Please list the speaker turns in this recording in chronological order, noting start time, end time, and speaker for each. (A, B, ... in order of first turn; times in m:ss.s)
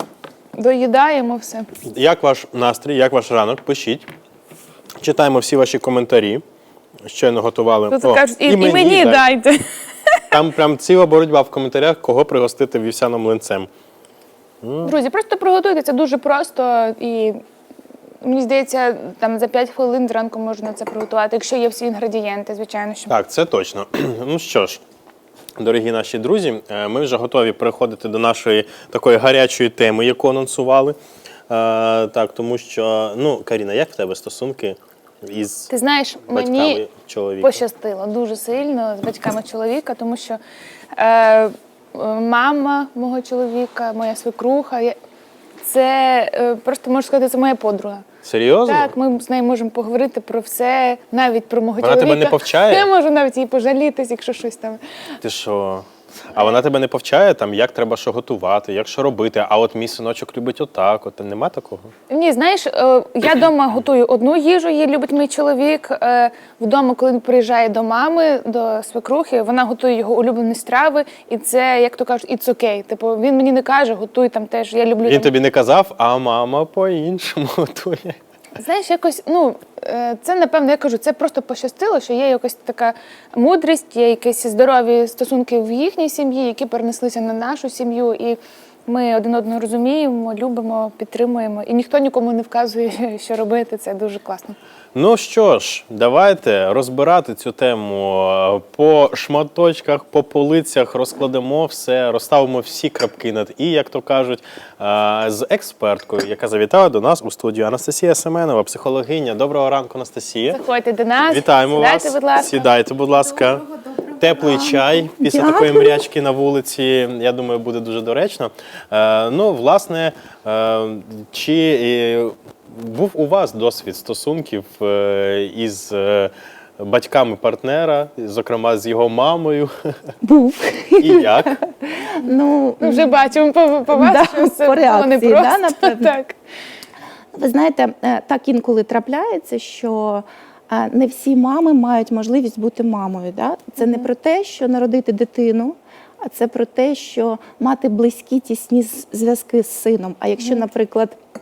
0:00.6-0:01.7 A
0:01.8-0:04.1 B
0:05.0-0:06.4 B
0:07.0-0:09.2 B
0:07.9-0:10.2 A
0:10.3-0:13.7 B
0:14.6-0:14.9 B
0:14.8-0:17.4 A
0:18.2-0:23.1 A
0:23.1-0:24.8 B
0:25.6-0:31.0 B
0:31.5-0:35.7 B
0:35.7-0:36.8 A
0:36.3-0:37.6 B
0:37.4-0:40.4 A
0:41.0-0:44.9 A
0:45.6-0:48.0 A
0:48.2-0:48.9 B
0:48.6-0:54.8 A
0:51.8-0:52.9 B
0:55.2-1:01.9 B
1:02.1-1:15.3 A
1:15.0-1:18.2 B
1:18.6-1:34.6 A
1:34.9-1:50.6 B
1:50.5-1:52.6 A
1:51.3-1:53.6 B
1:54.0-1:56.0 C
1:54.2-2:09.7 B
2:10.2-2:13.2 C
2:11.0-2:11.6 B
2:12.8-2:16.3 A
2:13.9-2:16.2 C
2:17.3-2:31.2 C
2:23.8-2:24.0 A